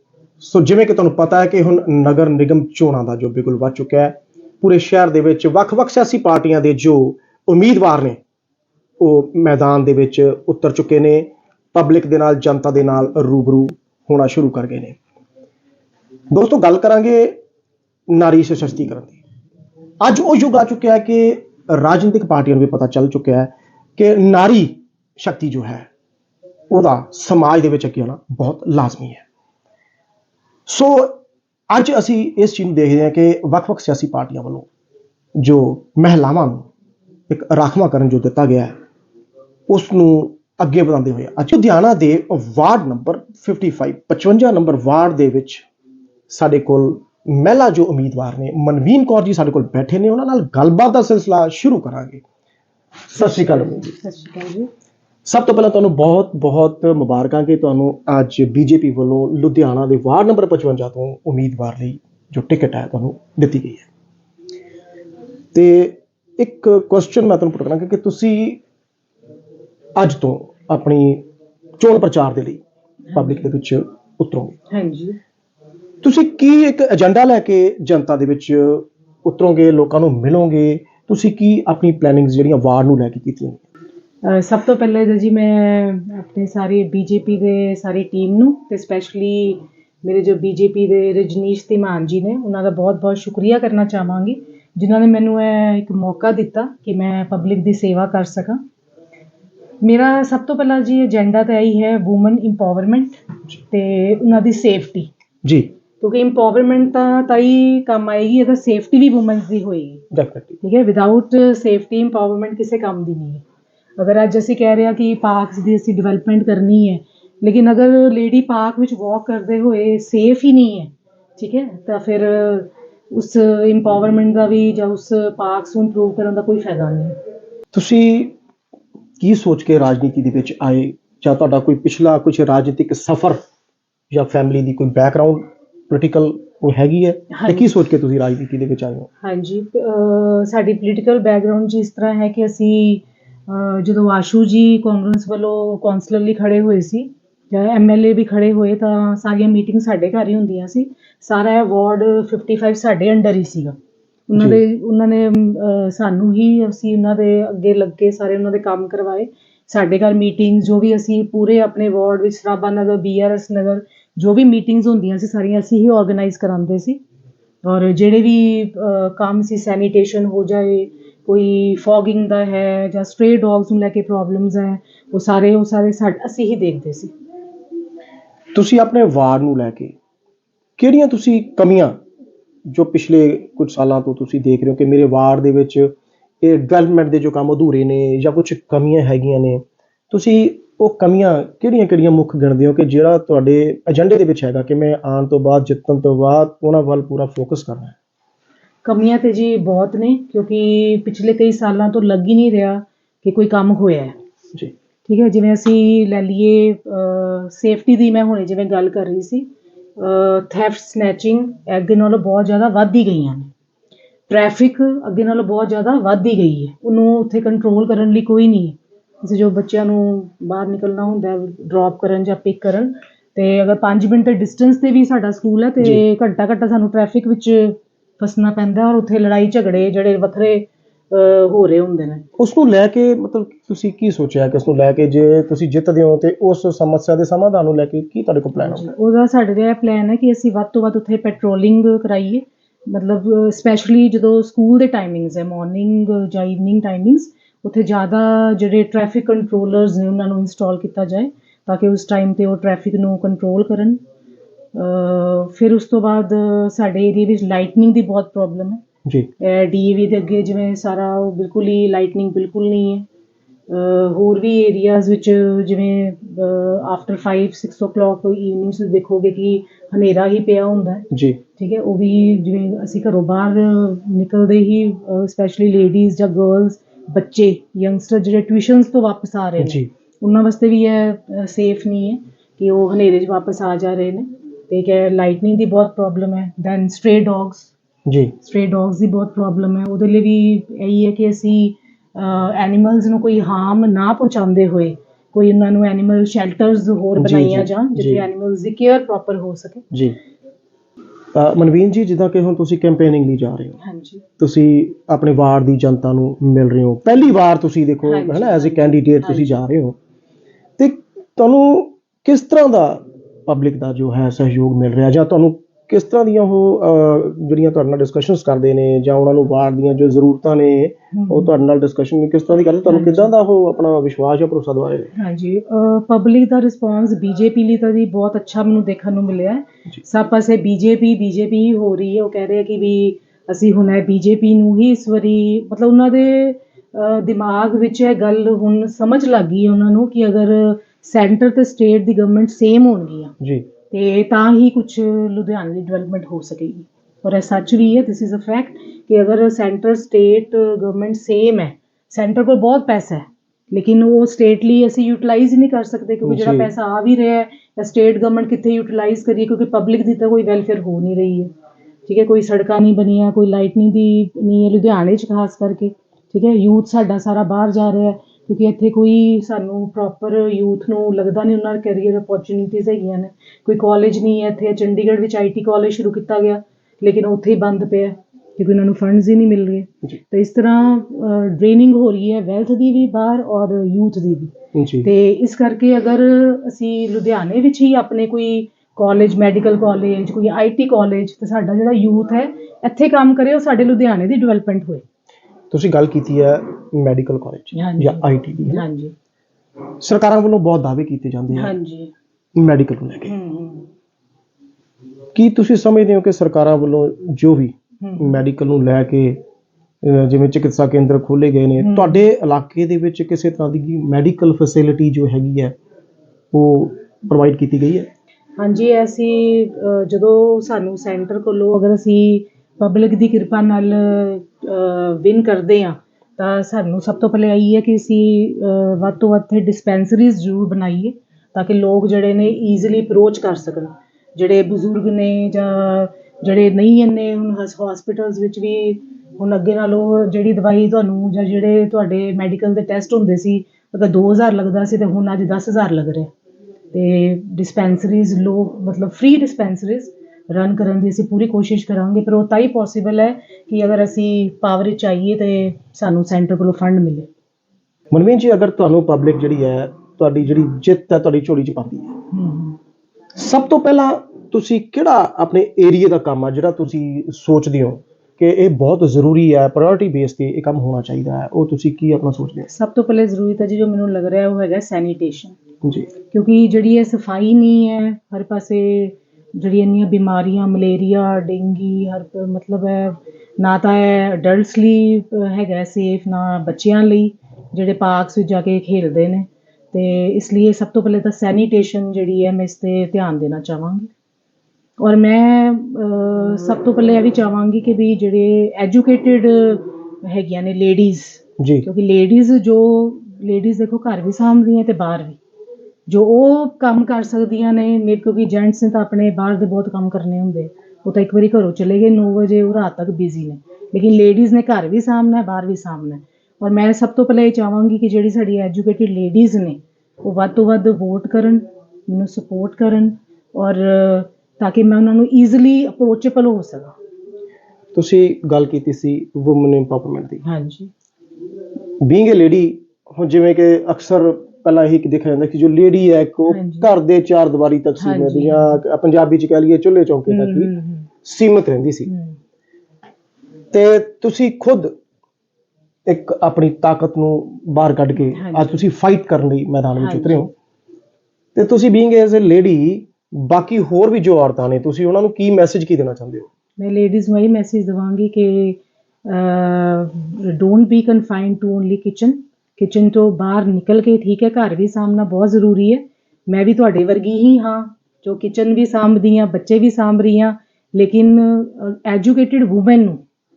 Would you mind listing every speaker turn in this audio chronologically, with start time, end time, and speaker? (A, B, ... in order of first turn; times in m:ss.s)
0:00.4-0:08.2 A
0:09.0-0:15.0 A
0:16.3-0:17.4 A
0:18.1-0:19.2 A
0:20.0-0:25.9 A
0:26.7-0:29.2 A
0:30.7-0:34.7 A
0:35.4-0:36.7 A
0:37.3-0:38.7 A
0:39.7-0:45.6 A
0:46.3-0:52.2 A
0:53.1-0:53.9 A
0:53.2-0:54.7 B
0:55.2-1:03.9 A
1:05.5-1:08.6 A
1:10.0-1:11.2 A
1:11.8-1:12.6 A
1:13.1-1:13.4 B
1:13.1-1:14.6 A
1:14.7-1:15.2 B
1:16.0-1:23.6 A
1:24.2-1:38.6 B
1:39.8-1:45.1 B
1:45.4-1:45.7 A
1:46.0-1:50.0 B
1:50.1-1:50.6 A
1:50.6-1:53.4 B
1:54.0-2:07.2 B
2:07.7-2:08.3 A
2:09.2-2:13.4 A
2:14.1-2:19.1 A
2:17.3-2:17.7 B
2:19.2-2:33.8 B
2:34.3-2:47.0 B
2:47.6-2:57.1 B
2:58.5-2:59.9 A
3:00.8-3:02.0 A
3:02.7-3:18.0 A
3:18.8-3:24.2 B
3:25.0-3:33.5 B
3:34.3-3:52.2 B
3:52.4-3:58.9 A
3:58.6-4:14.0 B
4:14.7-4:18.8 B
4:19.4-4:23.0 B
4:23.7-4:47.7 B
4:31.1-4:31.4 A
4:39.6-4:39.9 A
4:48.0-4:48.3 A
4:48.4-4:59.8 B
4:57.2-4:58.2 A
4:59.9-5:00.2 A
5:01.3-5:03.8 A
5:03.8-5:04.2 B
5:04.4-5:10.0 A
5:08.0-5:09.6 B
5:10.8-5:25.1 A
5:21.1-5:21.6 B
5:22.8-5:23.3 B
5:25.1-5:43.3 B
5:43.4-5:43.7 A
5:43.9-6:01.5 B
5:56.2-5:56.7 A
6:02.0-6:35.0 B
6:24.7-6:25.1 A
6:35.7-6:38.8 A
6:37.7-6:39.1 B
6:40.0-6:41.7 A
6:41.5-6:42.1 B
6:42.6-6:43.3 A
6:43.2-6:43.9 B
6:45.3-6:49.4 A
6:48.0-6:48.4 B
6:50.0-6:55.8 A
6:51.8-6:52.2 B
6:56.5-6:58.1 A
6:58.6-7:26.3 B
7:26.9-7:37.3 B
7:38.1-7:42.2 A
7:42.3-7:42.8 B
7:43.4-7:52.7 A
7:52.7-7:55.6 B
7:55.8-7:56.1 A
7:56.3-8:14.1 B
8:15.0-8:25.4 B
8:21.6-8:21.8 A
8:26.1-8:47.0 B
8:47.9-8:50.4 A
8:50.4-8:50.9 B
8:52.0-9:00.7 A
8:56.5-8:56.9 B
8:58.0-8:58.8 B
9:00.3-9:01.1 B
9:01.2-9:02.1 A
9:02.0-9:02.4 B
9:03.7-9:04.9 A
9:06.0-9:10.5 A
9:08.2-9:08.8 B
9:10.0-9:10.4 B
9:11.5-9:16.5 A
9:16.8-9:33.2 B